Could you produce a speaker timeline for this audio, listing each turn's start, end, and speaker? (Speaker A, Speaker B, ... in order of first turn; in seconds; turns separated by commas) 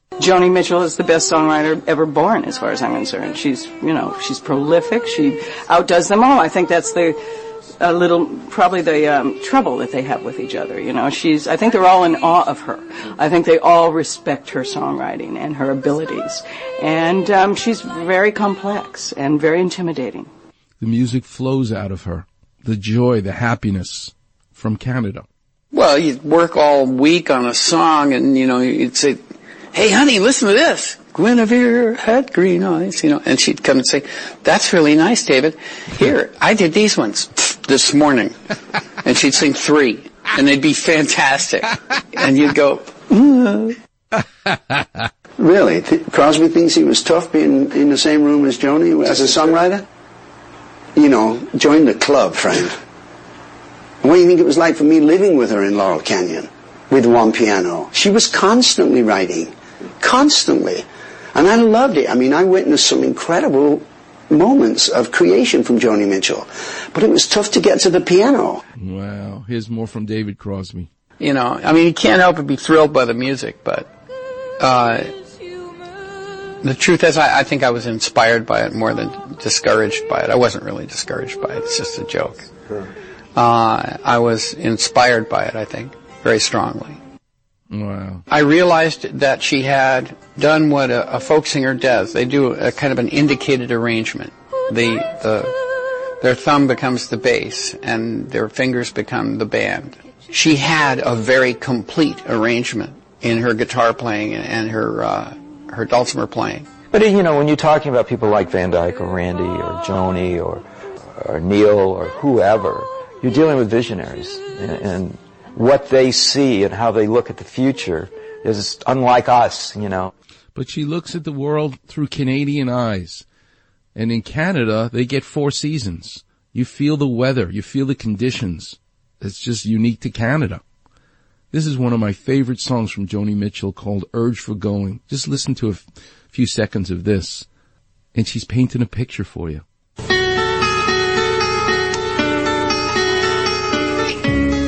Speaker A: 0.2-7.2, Speaker A: 7.8-20.3, Speaker B: 20.8-25.2, Speaker C: 25.7-29.2, Speaker C: 29.7-38.4, Speaker C: 39.0-43.8, Speaker D: 45.4-49.9, Speaker D: 50.9-52.8, Speaker D: 54.0-68.6, Speaker B: 68.8-70.9, Speaker C: 71.2-73.9, Speaker C: 74.6-75.1, Speaker C: 76.6-82.5, Speaker C: 83.4-87.0, Speaker B: 87.7-88.2, Speaker C: 88.3-95.5, Speaker C: 96.2-106.7, Speaker E: 106.9-120.1, Speaker B: 120.5-123.2, Speaker B: 123.9-130.6, Speaker B: 131.5-137.5, Speaker B: 138.1-139.6